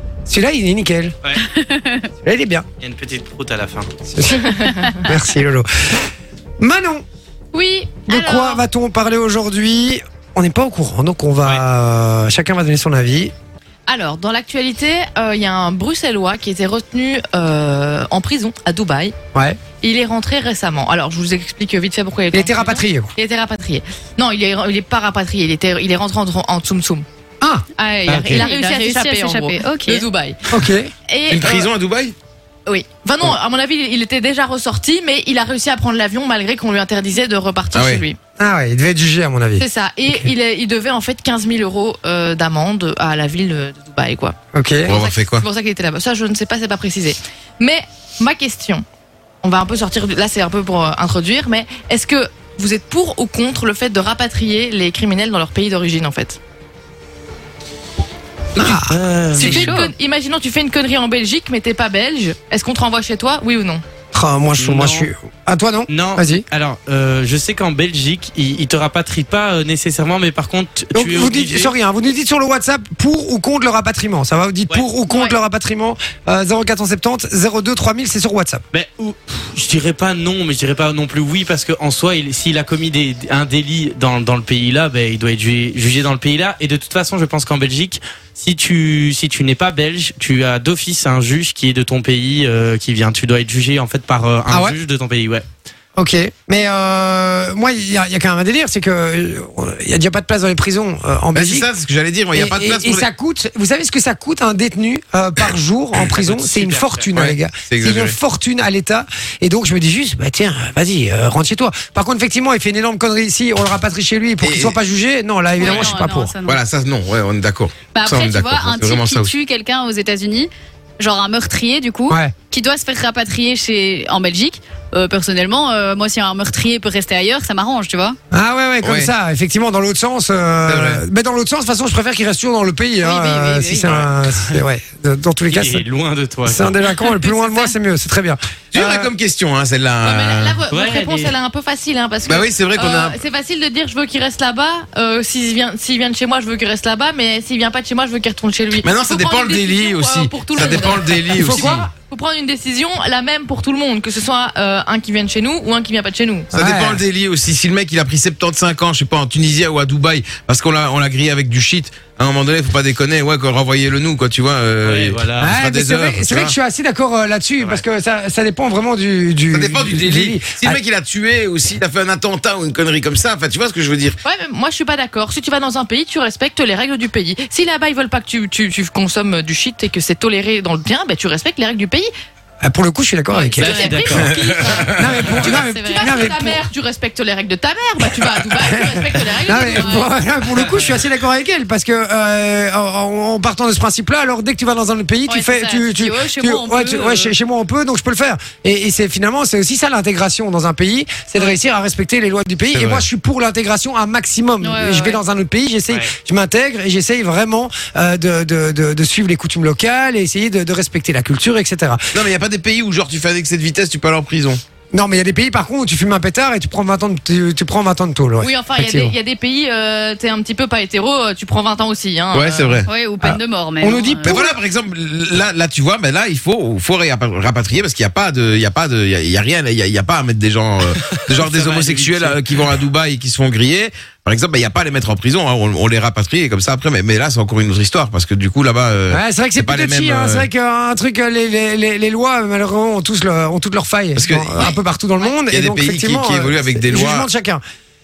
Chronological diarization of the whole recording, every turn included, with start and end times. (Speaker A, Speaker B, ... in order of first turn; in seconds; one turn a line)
Speaker A: 0.3-1.1
Speaker B: 1.5-2.1
Speaker A: 2.2-2.6
Speaker C: 2.8-3.9
Speaker A: 4.1-5.7
Speaker D: 4.3-5.0
Speaker A: 6.6-7.0
Speaker D: 7.5-8.6
Speaker A: 8.1-13.3
Speaker D: 13.9-19.1
Speaker D: 19.8-27.1
Speaker A: 22.3-23.1
Speaker D: 27.8-30.4
Speaker C: 28.1-28.4
Speaker B: 28.1-30.1
Speaker A: 30.5-30.9
Speaker D: 31.1-31.7
Speaker E: 31.3-32.2
Speaker D: 32.7-38.2
Speaker E: 37.7-38.0
Speaker A: 38.4-40.3
Speaker D: 39.6-48.8
Speaker A: 44.5-44.9
Speaker E: 44.9-45.5
Speaker D: 49.4-56.4
Speaker A: 58.6-59.8
Speaker C: 58.6-59.8
Speaker D: 59.4-63.8
Speaker A: 64.1-66.5
Speaker C: 64.6-65.1
Speaker C: 65.9-71.8
Speaker A: 71.0-78.6
Speaker B: 75.1-75.4
Speaker C: 78.7-95.5
Speaker A: 94.5-94.8
Speaker A: 96.0-101.7
Speaker E: 101.3-103.1
Speaker A: 102.3-116.3
Speaker C: 106.2-107.1
Speaker E: 107.1-108.2
Speaker E: 114.4-114.8
Speaker B: 115.6-116.6
Speaker E: 115.6-119.3
Speaker B: 117.9-128.2
Speaker A: 128.3-135.8
Speaker E: 128.8-129.1
Speaker E: 130.7-131.0
Speaker B: 133.0-134.0
Speaker C: 133.9-134.6
Speaker C: 135.5-137.2
Speaker A: 136.4-139.1
Speaker D: 137.2-137.7
Speaker E: 138.7-140.6
Speaker D: 140.0-156.5
Speaker C: 140.7-141.4
Speaker E: 142.2-143.2
Speaker E: 148.8-151.8
Speaker A: 151.3-151.9
Speaker A: 156.5-157.0
Speaker E: 156.5-166.6
Speaker C: 164.8-165.6
Speaker A: 165.4-170.8
Speaker E: 169.5-174.2
Speaker D: 174.2-182.1
Speaker A: 182.6-183.9
Speaker D: 183.3-190.1
Speaker C: 183.6-184.3
Speaker E: 184.1-185.4
Speaker A: 184.9-186.6
Speaker A: 188.6-212.1
Speaker C: 190.5-191.0
Speaker B: 195.3-197.3
Speaker E: 202.7-203.1
Speaker B: 204.6-205.2
Speaker E: 212.1-214.6
Speaker A: 214.9-219.2
Speaker D: 218.4-222.8
Speaker E: 222.3-222.9
Speaker B: 222.8-224.4
Speaker A: 223.2-224.6
Speaker E: 224.1-240.5
Speaker C: 231.1-232.7
Speaker A: 239.1-247.6
Speaker E: 244.2-244.8
Speaker E: 245.5-247.3